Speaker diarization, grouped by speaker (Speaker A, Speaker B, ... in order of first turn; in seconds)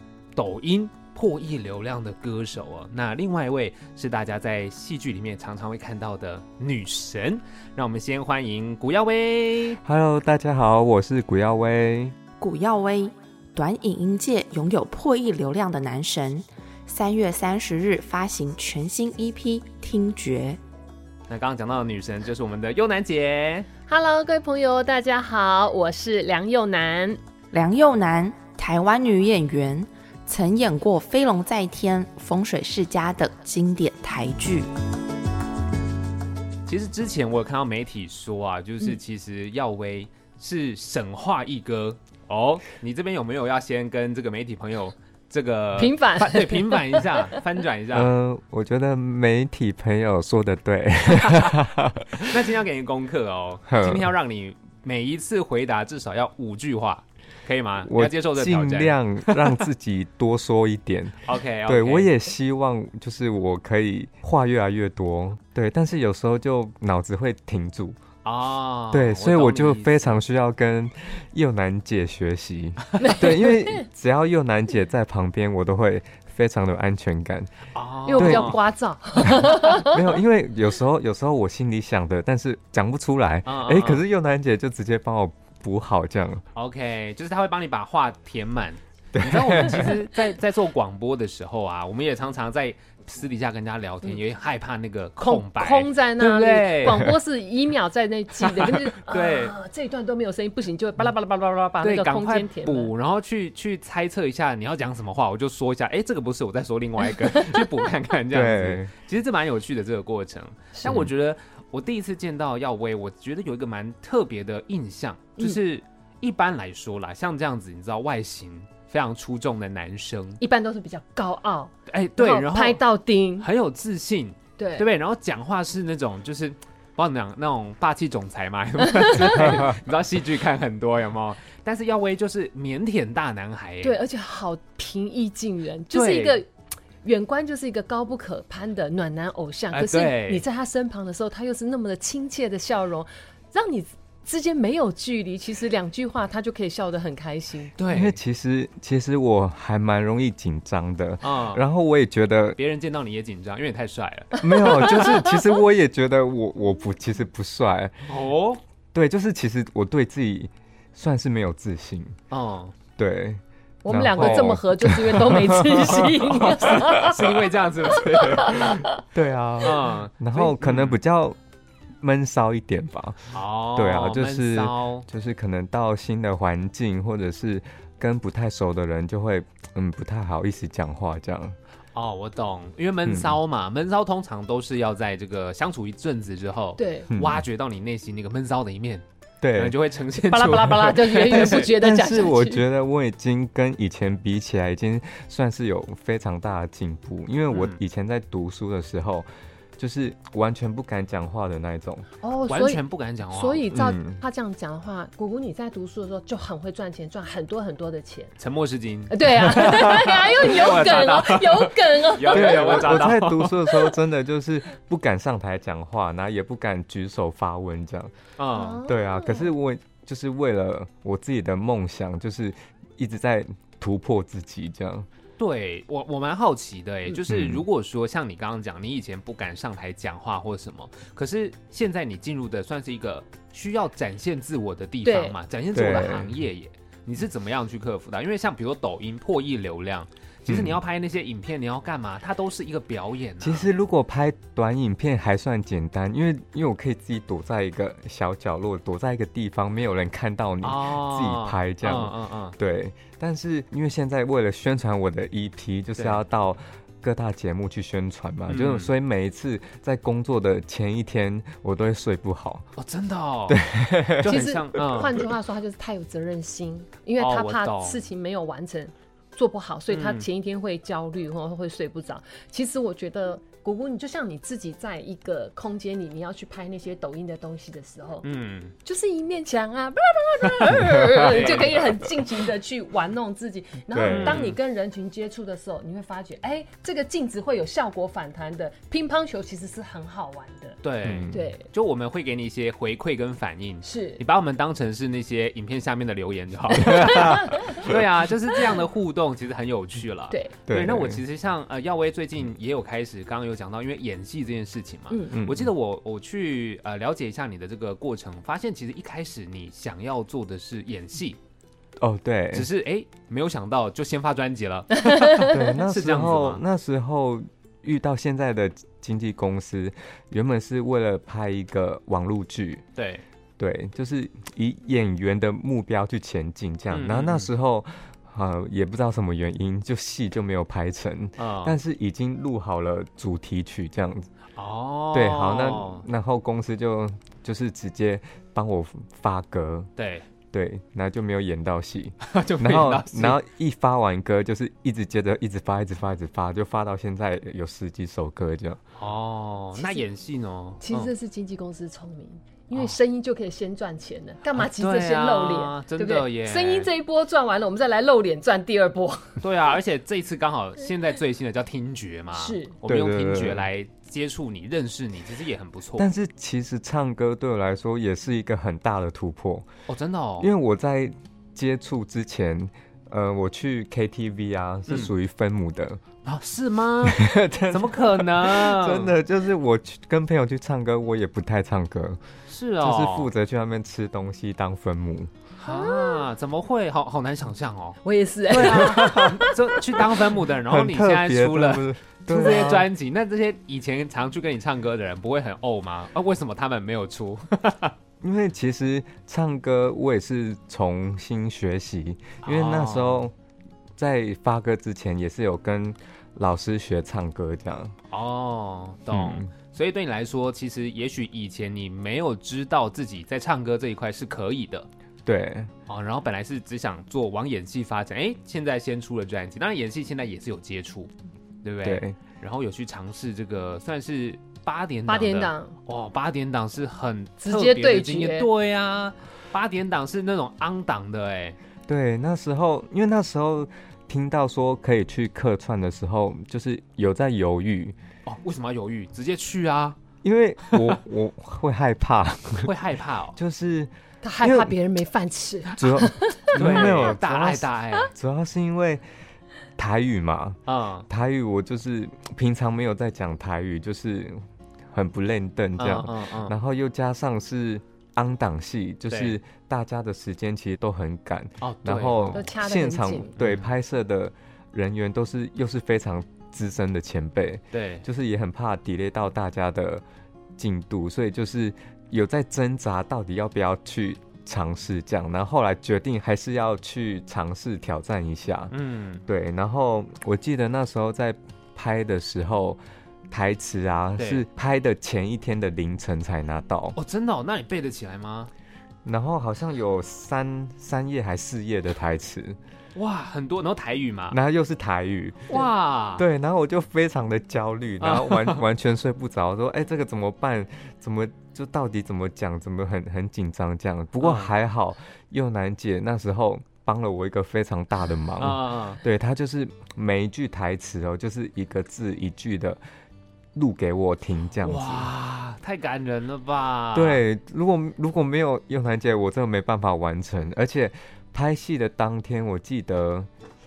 Speaker A: 0.3-9.8, 21.3-23.7, 36.7-48.1, 52.2-59.6, 61.2-62.1, 68.2-70.2, 77.7-78.6, 83.5-84.0, 86.5-97.1, 98.5-99.6, 101.8-120.4, 121.9-122.8, 123.4-134.0, 135.9-136.4, 139.7-140.4, 147.8-148.2, 151.2-151.6, 152.6-154.9, 158.1-158.6, 162.3-162.7, 166.5-168.8, 169.6-171.0, 173.3-175.1, 181.9-191.7, 197.5-197.8, 202.5-203.6, 208.4-213.9, 218.4-218.8, 225.4-243.7, 250.6-252.6, 256.0-256.2, 258.5-258.9, 262.8-263.6, 264.2-265.2, 267.2-268.0, 269.9-270.3, 278.2-278.7, 280.5-281.9, 284.1-284.6, 290.8-311.4, 312.5-316.6, 323.0-323.2, 326.9-327.5, 331.4-331.8, 334.6-336.1, 340.0-340.3, 342.2-343.4, 349.0-351.1, 354.5-356.9, 359.4-366.1, 369.9-370.5, 376.2-379.2, 382.5-383.3, 385.6-388.0, 388.5-397.9, 402.4-403.3, 408.1-414.9, 415.9-421.1, 421.6-431.6, 438.3-440.0, 440.6-441.0, 442.6-443.4, 446.5-448.1, 450.7-451.1, 455.8-456.6, 459.1-459.4, 461.6-462.4, 463.4-463.7, 467.7-468.1, 478.7-479.2, 484.2-484.4, 486.9-488.5, 492.9-494.4, 495.5-496.2, 498.0-498.6, 504.2-504.5, 508.4-509.0, 514.6-517.2
Speaker B: 9.8-12.2, 47.9-52.4, 53.7-54.1, 57.9-68.0, 68.9-77.5, 78.2-78.5, 79.2-86.4, 89.1-90.0, 108.3-108.9, 147.9-152.6, 154.4-158.1, 158.9-162.2, 163.0-167.2, 168.3-171.4, 172.0-181.6, 183.1-183.4, 187.1-187.4, 189.4-189.8, 191.4-202.1, 203.7-204.2, 212.3-218.1, 218.8-225.1, 227.1-227.6, 235.8-236.3, 240.5-240.8, 243.4-262.7, 263.5-264.4, 280.8-281.6, 283.9-284.5, 291.0-291.5, 296.9-298.0, 300.7-301.2, 305.3-305.7, 312.0-312.7, 315.5-322.9, 323.6-334.3, 335.1-339.9, 340.5-348.8, 362.9-363.7, 366.0-369.7, 370.4-376.0, 377.0-382.2, 382.8-385.3, 388.5-389.4, 390.6-392.9, 398.2-403.3, 404.0-407.9, 409.1-409.5, 415.2-415.7, 421.8-422.2, 431.9-437.9, 440.2-442.7, 443.4-444.7, 445.8-449.0, 449.8-454.4, 454.9-470.0, 470.6-478.7, 479.3-487.0, 489.1-492.6, 494.3-512.8, 513.5-515.1, 516.9-523.3
Speaker C: 12.4-20.6, 27.5-34.7
Speaker D: 23.9-27.2, 45.8-47.4, 73.0-73.9, 78.1-80.1, 95.2-102.9, 110.8-111.1, 120.4-123.5, 124.6-124.9, 128.9-129.6, 133.8-136.5, 137.0-147.7, 154.4-155.4, 163.8-167.2, 168.0-168.9, 186.8-187.1, 190.1-192.7, 202.2-208.3, 209.1-213.1, 218.5-219.5, 235.0-236.1, 264.2-278.3, 278.9-290.8, 291.3-291.7, 293.8-294.2, 297.0-297.9, 305.1-305.4, 315.1-315.6, 349.8-350.0, 350.8-359.4, 362.3-362.8, 385.6-386.2, 388.0-390.1, 425.1-425.8, 427.4-428.5, 444.2-447.1, 462.3-463.4